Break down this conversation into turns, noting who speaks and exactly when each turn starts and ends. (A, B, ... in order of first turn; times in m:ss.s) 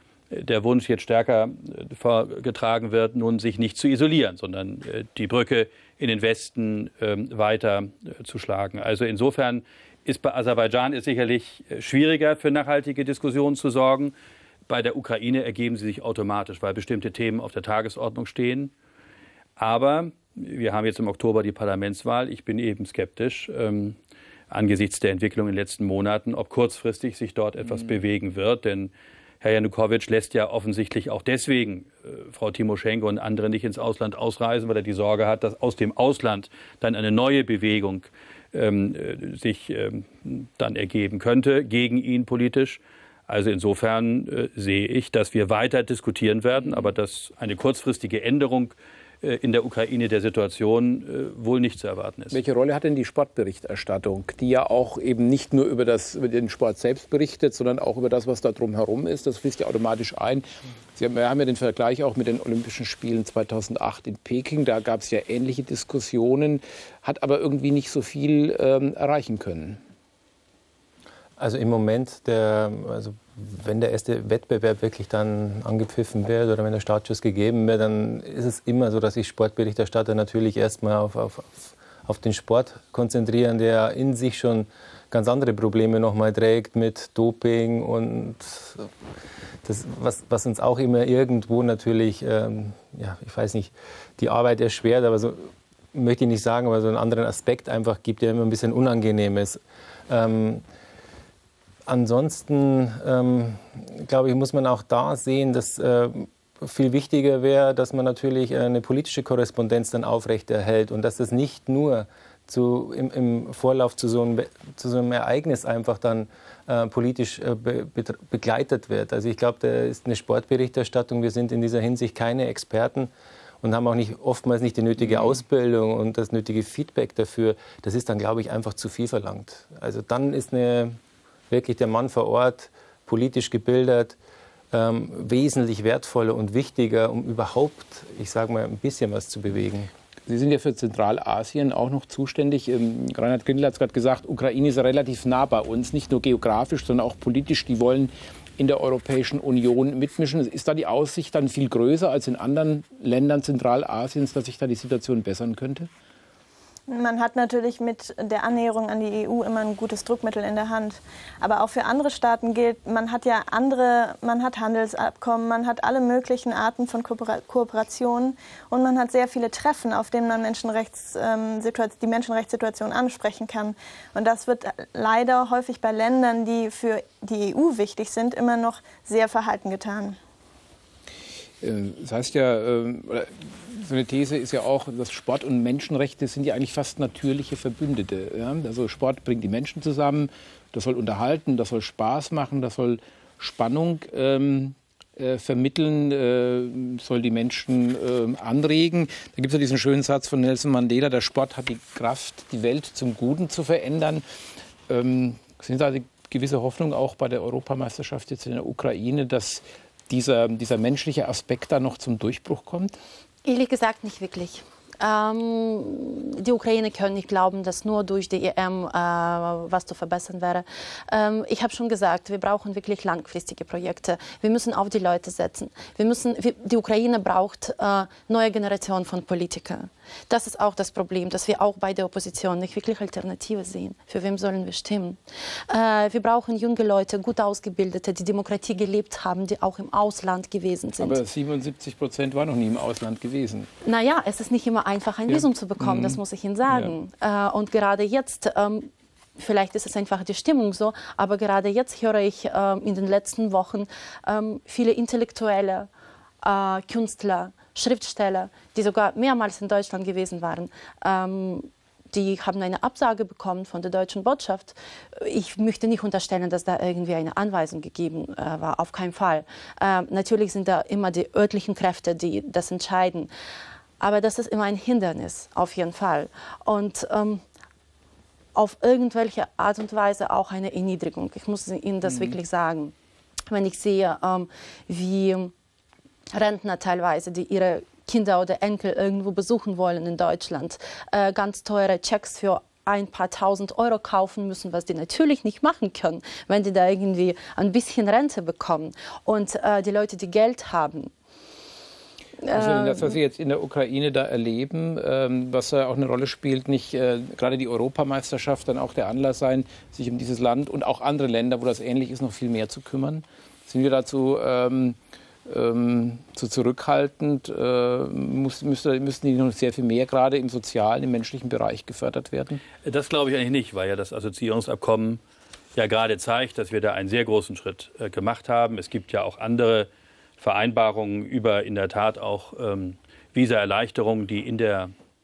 0:00.3-0:14.1 A
0:14.7-0:18.7 A
0:19.6-0:24.0 A
0:24.5-0:52.4 A
0:52.3-1:09.8 B
1:11.4-1:28.9 C
1:29.6-1:40.6 C
1:41.9-2:03.1 C
2:03.6-2:11.0 C
2:11.5-2:14.2 C
2:14.7-2:19.9 C
2:20.3-2:35.9 B
2:36.9-3:00.2 D
3:01.6-3:24.2 B
3:24.9-3:33.0 B
3:33.4-4:01.2 E
4:01.0-4:03.7 B
4:03.8-4:15.9 E
4:05.3-4:06.2 B
4:16.4-4:33.3 E
4:34.0-4:37.4 E
4:38.5-4:42.9 E
4:43.5-4:45.5 E
4:46.3-5:01.1 E
5:02.4-5:03.2 E
5:02.5-5:22.6 B
5:22.8-5:25.2 A
5:25.7-5:29.9 A
5:30.4-5:34.9 A